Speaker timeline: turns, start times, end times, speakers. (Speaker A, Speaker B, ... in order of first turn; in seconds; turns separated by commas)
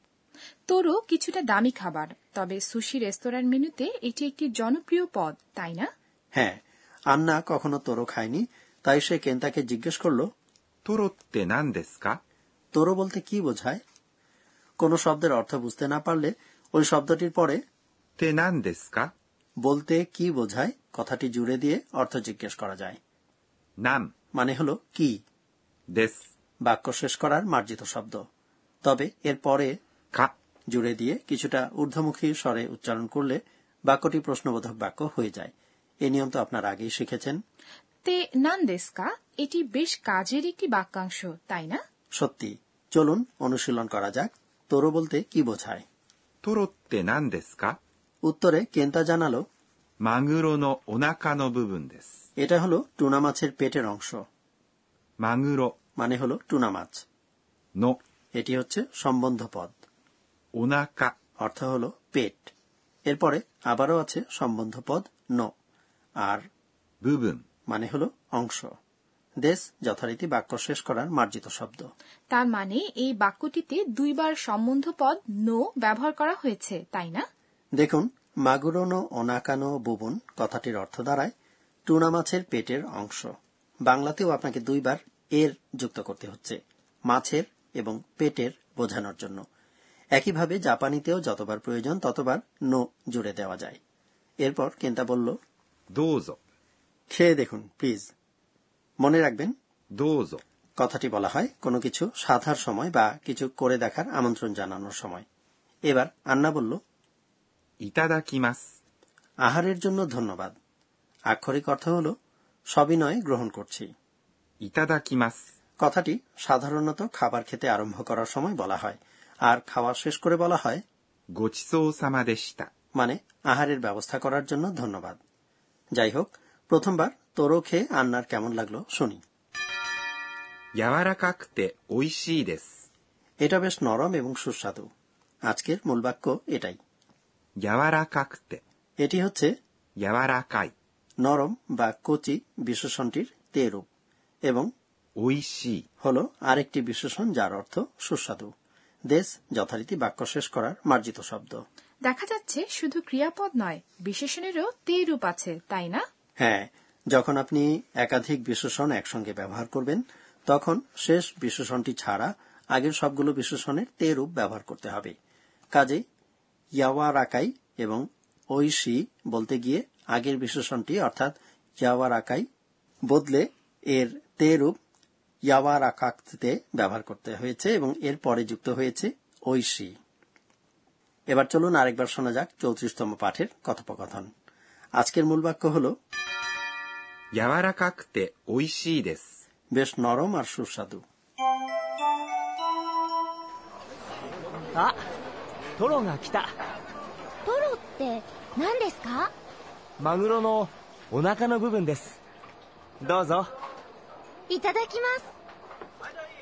Speaker A: 0.7-5.9, Speaker B: 7.1-10.2, Speaker C: 10.8-12.2, Speaker B: 12.7-13.8, Speaker B: 14.8-17.6, Speaker C: 18.2-19.1, Speaker B: 19.6-23.0, Speaker C: 23.8-24.1, Speaker B: 24.3-25.1, Speaker C: 25.9-26.2, Speaker B: 26.6-28.2, Speaker B: 28.8-29.7, Speaker B: 30.7-35.5, Speaker B: 36.0-37.4, Speaker A: 38.0-41.8, Speaker B: 42.2-45.8, Speaker C: 46.4-47.8, Speaker B: 48.2-49.4, Speaker C: 50.0-52.1, Speaker B: 52.4-54.2, Speaker C: 55.2-55.7, Speaker B: 56.0-57.0, Speaker B: 58.3-59.7, Speaker C: 60.5-61.1, Speaker B: 61.4-62.5, Speaker B: 63.1-65.5, Speaker C: 67.0-67.4, Speaker B: 67.7-68.7, Speaker B: 69.4-71.8, Speaker A: 72.3-77.2, Speaker B: 77.8-81.3, Speaker B: 81.9-83.3, Speaker B: 83.8-86.6, Speaker B: 87.1-89.4, Speaker B: 90.2-93.8, Speaker B: 94.4-95.3, Speaker C: 96.0-96.4, Speaker B: 97.1-98.1, Speaker B: 99.0-99.5, Speaker C: 100.0-100.4, Speaker B: 100.8-105.2, Speaker B: 105.9-106.8, Speaker C: 107.8-108.6, Speaker B: 109.5-110.5, Speaker B: 111.3-112.1, Speaker B: 112.7-113.9, Speaker C: 114.6-115.4, Speaker B: 115.8-120.8, Speaker C: 121.4-122.7, Speaker B: 123.0-125.2, Speaker B: 126.0-129.2, Speaker C: 130.8-132.7, Speaker B: 133.4-134.8, Speaker B: 135.5-136.8, Speaker C: 137.6-138.6, Speaker B: 139.0-139.5, Speaker C: 140.0-140.7, Speaker B: 141.2-143.8, Speaker C: 145.2-145.8, Speaker B: 146.0-148.5, Speaker B: 149.1-151.6, Speaker A: 152.1-156.0, Speaker B: 156.4-165.1, Speaker B: 165.7-166.0, Speaker B: 166.8-172.4, Speaker B: 173.1-174.7, Speaker B: 175.5-179.9, Speaker B: 181.3-184.3, Speaker B: 185.0-185.9, Speaker C: 187.3-189.3, Speaker B: 189.7-191.0, Speaker D: 195.8-196.5, Speaker E: 197.5-199.3, Speaker D: 200.0-202.2, Speaker D: 203.0-203.5, Speaker E: 204.5-205.3